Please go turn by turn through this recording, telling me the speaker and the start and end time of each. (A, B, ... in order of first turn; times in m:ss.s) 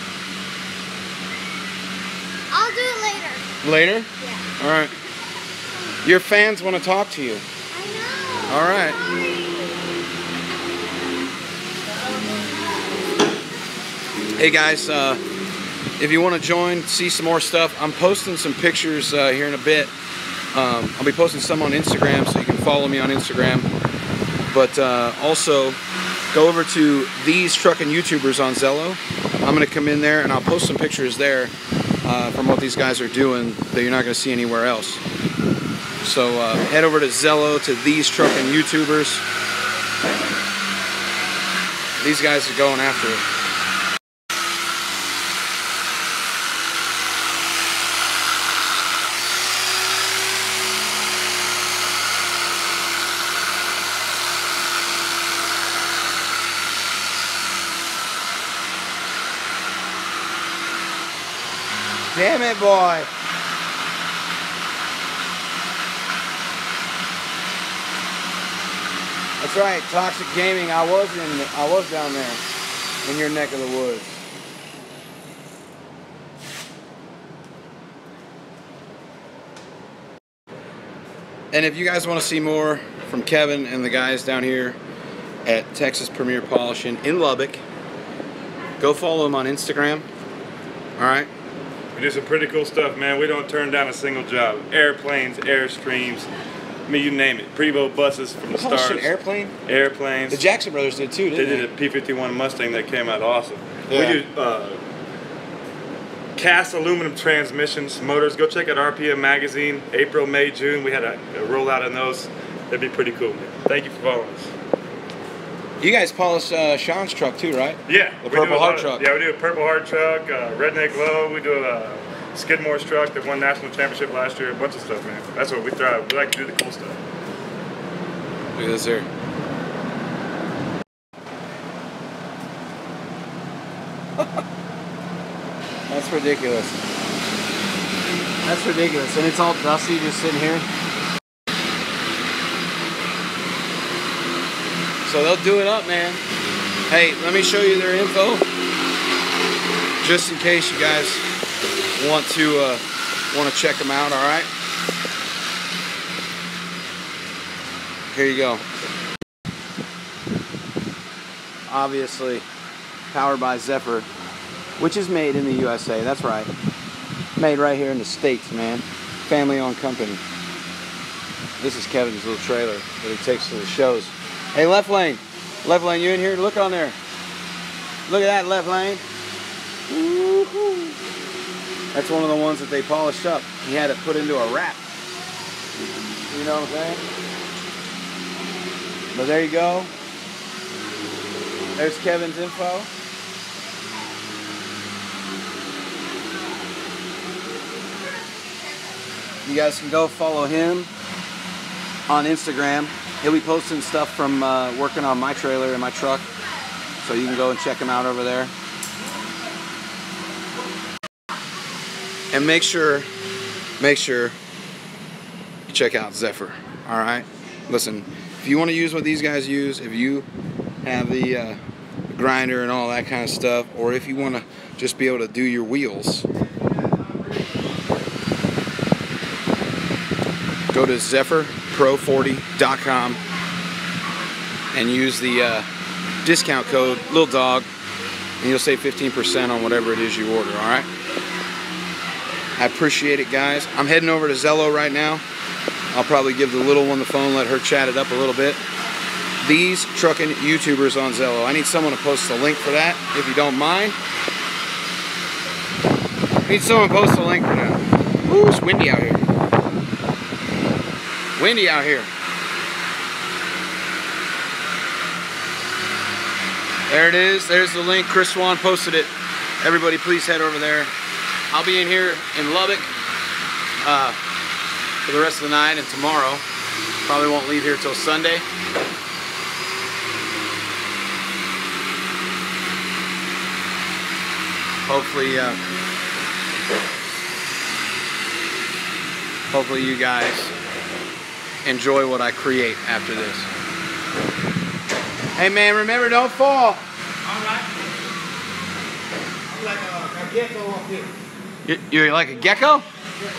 0:02.5-0:03.4 A
0:03.6-0:05.0 B
0:04.2-0:04.5 A
0:06.0-0:07.4 B
0:07.7-0:09.8 A
0:08.5-0:09.0 B
0:14.4-0:15.2 B
0:16.0-0:19.9 B
0:20.5-0:23.7 B
0:24.5-0:25.8 B
0:26.3-0:31.5 B
0:32.0-0:35.0 B
0:36.0-0:39.2 B
0:42.0-0:43.2 B
1:02.1-1:03.1 B
1:09.4-1:12.4 B
1:13.0-1:14.2 B
1:21.5-1:24.8 B
1:25.4-1:27.6 B
1:28.8-1:30.1 B
1:31.0-1:31.3 B
1:32.0-1:36.3 C
1:36.9-1:39.1 C
1:38.5-1:39.5 B
1:39.7-1:40.5 C
1:40.3-1:41.7 B
1:41.3-1:44.8 C
1:43.9-1:44.2 B
1:46.4-1:54.5 C
1:55.8-1:59.1 B
1:57.9-2:07.0 C
2:08.5-2:09.1 B
2:15.9-2:16.8 B
2:18.4-2:20.7 B
2:25.0-2:26.2 B
2:26.9-2:28.5 B
2:30.0-2:31.3 B
2:32.0-2:34.5 B
2:38.1-2:38.6 B
2:41.7-2:42.5 B
2:43.1-2:44.1 B
2:44.8-2:46.5 B
2:47.4-2:50.2 B
2:51.6-2:57.0 B
2:58.1-2:59.0 B
2:59.9-3:01.0 B
3:01.9-3:04.8 B
3:06.3-3:07.0 B
3:09.1-3:09.9 B
3:11.8-3:12.9 B
3:19.4-3:20.9 B
3:22.1-3:26.3 B
3:27.0-3:28.5 B
3:32.3-3:33.1 B
3:33.8-3:34.4 B
3:35.7-3:40.3 B
3:40.8-3:46.3 B
3:50.7-3:53.2 B
3:54.7-3:55.7 B
3:56.2-3:57.7 B
3:58.4-4:00.9 B
4:02.6-4:05.2 B
4:05.9-4:08.6 B
4:09.4-4:14.0 B
4:16.4-4:19.2 B
4:21.4-4:22.1 B
4:26.9-4:29.1 B
4:29.6-4:30.9 B
4:31.5-4:32.9 B
4:33.8-4:34.2 B
4:35.0-4:36.4 B
4:37.0-4:38.5 B
4:44.8-4:45.6 B
4:49.5-4:50.5 B
4:51.6-4:53.5 B
4:55.4-4:56.8 B
4:59.5-5:01.1 B
5:01.6-5:02.9 B